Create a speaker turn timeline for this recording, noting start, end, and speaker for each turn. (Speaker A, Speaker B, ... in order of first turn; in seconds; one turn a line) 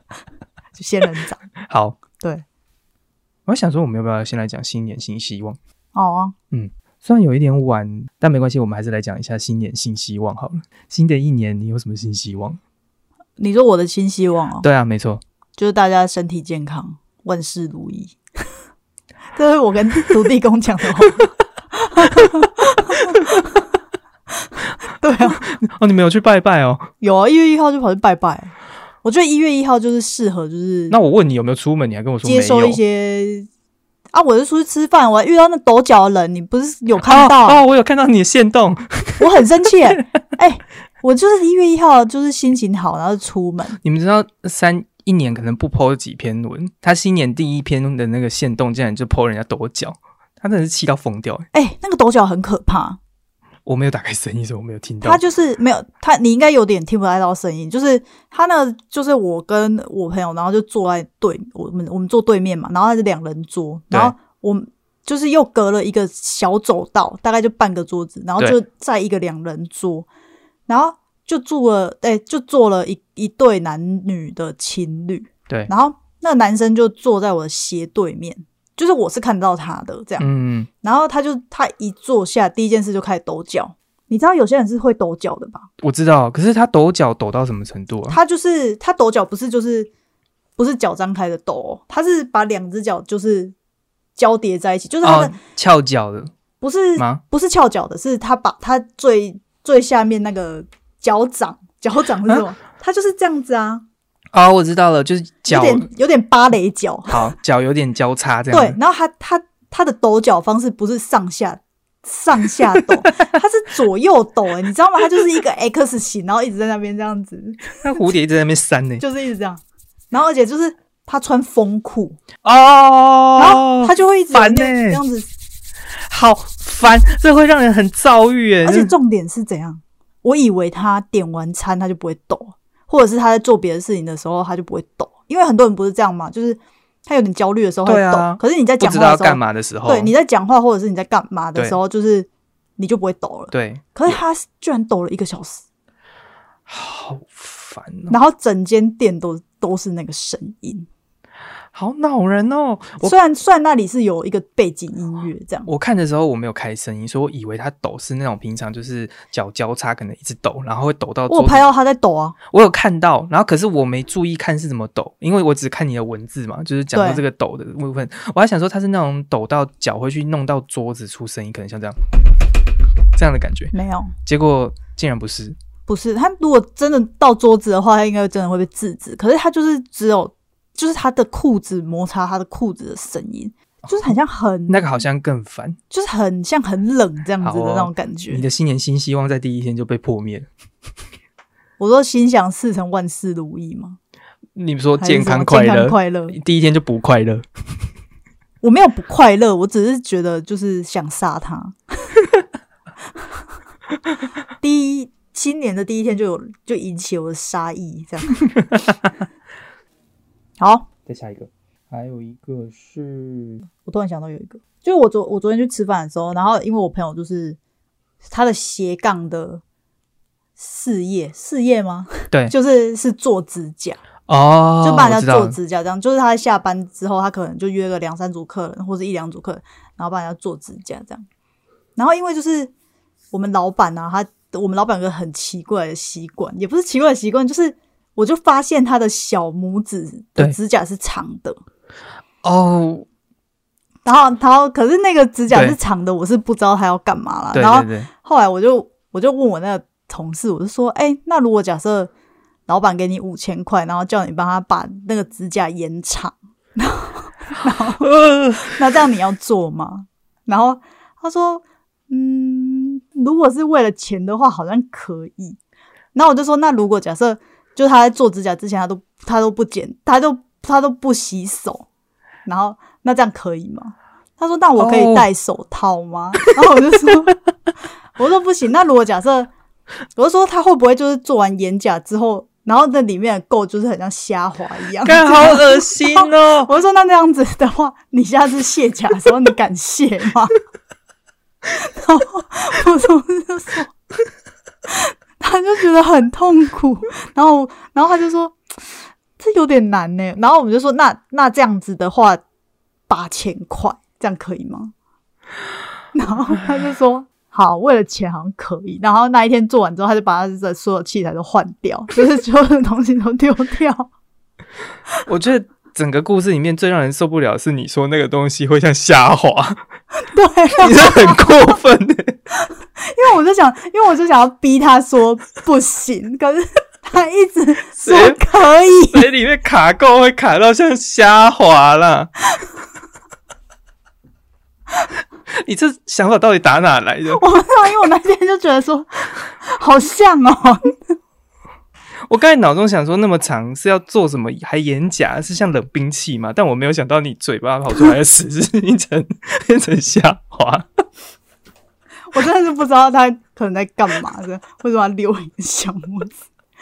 Speaker A: 0.8-1.4
Speaker B: 1.7-2.0
Speaker B: 3.5-5.6
Speaker A: 5.9-6.3
Speaker B: 6.5-12.6
Speaker A: 13.4-14.7
Speaker B: 14.6-15.2
Speaker A: 15.6-18.2
Speaker A: 19.3-23.6
Speaker A: 24.6-25.4
Speaker B: 25.4-26.9
Speaker A: 27.0-28.5
Speaker A: 29.0-31.0
Speaker B: 30.9-32.8
Speaker A: 32.2-33.5
Speaker A: 34.1-37.6
Speaker B: 37.0-39.2
Speaker A: 39.2-43.8
Speaker B: 43.8-51.5
Speaker A: 51.5-53.0
Speaker B: 53.7-55.2
Speaker A: 55.0-70.1
Speaker A: 70.7-80.3
Speaker B: 80.2-80.7
Speaker A: 80.8-85.7
Speaker B: 85.8-88.2
Speaker A: 88.1-89.9
Speaker A: 90.6-93.5
Speaker A: 94.2-95.4
Speaker B: 95.0-96.3
Speaker A: 96.6-103.8
Speaker B: 104.3-105.9
Speaker A: 105.5-107.3
Speaker B: 107.1-108.8
Speaker A: 108.5-117.8
Speaker B: 117.8-119.0
Speaker A: 119.0-122.2
Speaker B: 122.4-125.0
Speaker A: 123.4-125.3
Speaker B: 126.1-128.9
Speaker A: 128.6-145.6
Speaker B: 137.9-140.1
Speaker B: 143.5-144.2
Speaker B: 146.7-148.2
Speaker A: 148.1-150.9
Speaker B: 151.7-153.1
Speaker A: 153.0-155.7
Speaker B: 155.7-161.7
Speaker A: 161.3-162.4
Speaker B: 162.5-172.0
Speaker A: 166.9-167.2
Speaker B: 173.1-173.7
Speaker A: 173.7-174.1
Speaker B: 174.2-175.6
Speaker A: 175.9-184.9
Speaker B: 184.7-185.8
Speaker A: 185.9-188.4
Speaker B: 187.4-190.5
Speaker A: 191.8-194.0
Speaker B: 194.6-197.4
Speaker A: 195.0-196.4
Speaker A: 198.6-201.8
Speaker A: 204.6-208.5
Speaker A: 210.6-210.9
Speaker B: 211.1-213.7
Speaker A: 213.9-217.6
Speaker A: 218.2-219.6
Speaker A: 220.6-224.0
Speaker B: 224.3-225.6
Speaker A: 224.8-231.2
Speaker A: 231.9-232.7
Speaker A: 233.3-241.6
Speaker B: 242.4-243.1
Speaker A: 244.1-252.1
Speaker B: 245.5-245.8
Speaker B: 247.5-248.1
Speaker A: 252.7-265.6
Speaker B: 258.0-258.7
Speaker A: 266.1-271.9
Speaker A: 272.4-277.4
Speaker B: 274.8-275.2
Speaker A: 278.1-279.5
Speaker A: 280.1-290.5
Speaker B: 285.0-286.7
Speaker A: 291.6-293.9
Speaker A: 294.9-302.4
Speaker A: 303.1-304.9
Speaker A: 306.1-314.1
Speaker B: 315.2-319.8
Speaker A: 320.2-321.7
Speaker B: 320.8-322.4
Speaker A: 322.6-329.2
Speaker B: 328.0-328.4
Speaker B: 329.1-332.3
Speaker B: 335.5-337.4
Speaker A: 337.3-341.1
Speaker B: 342.3-350.9
Speaker A: 352.3-356.4